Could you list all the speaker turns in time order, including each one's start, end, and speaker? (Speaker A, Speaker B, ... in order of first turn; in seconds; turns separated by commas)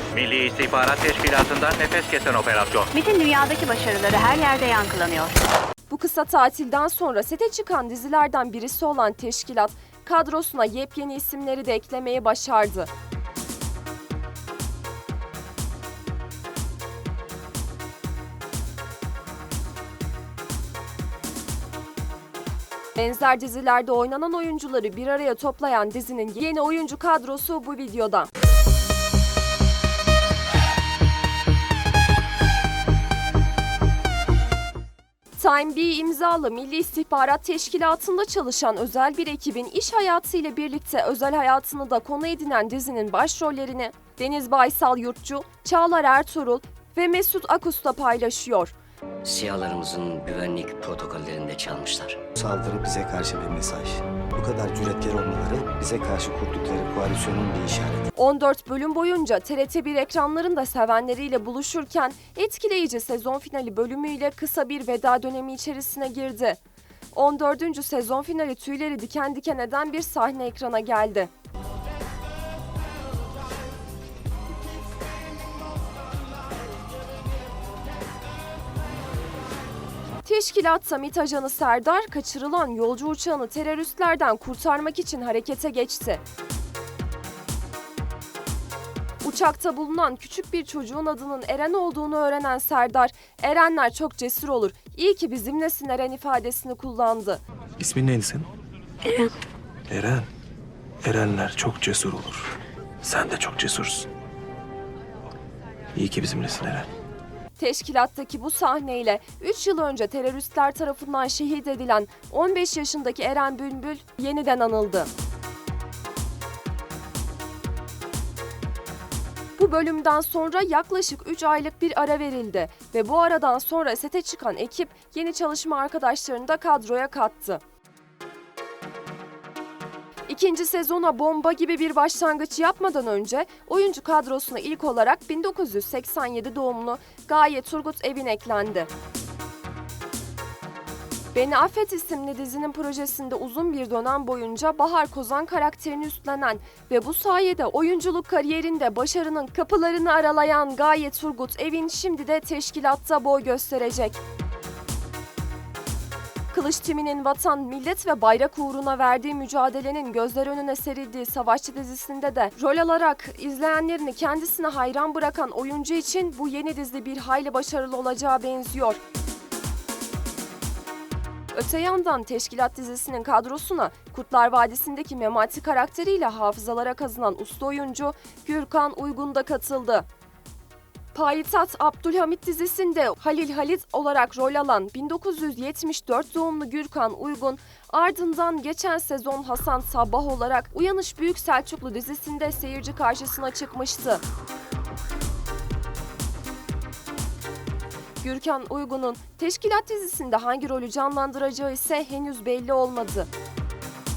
Speaker A: 0.1-2.9, Speaker B: 2.9-5.3, Speaker C: 5.9-12.9, Speaker C: 23.0-28.3, Speaker C: 35.4-48.8, Speaker D: 49.2-52.2, Speaker E: 52.4-58.1, Speaker C: 58.2-66.6, Speaker C: 67.1-71.3, Speaker C: 80.2-86.2, Speaker C: 89.2-97.4, Speaker F: 97.8-98.5, Speaker F: 99.9-100.3, Speaker F: 101.0-104.1, Speaker F: 106.0-106.9, Speaker C: 107.6-115.1, Speaker C: 119.6-127.6, Speaker C: 130.3-138.9, Speaker C: 141.3-154.2, Speaker C: 156.5-169.0, Speaker C: 171.5-180.1, Speaker C: 181.1-194.2, Speaker C: 198.2-203.3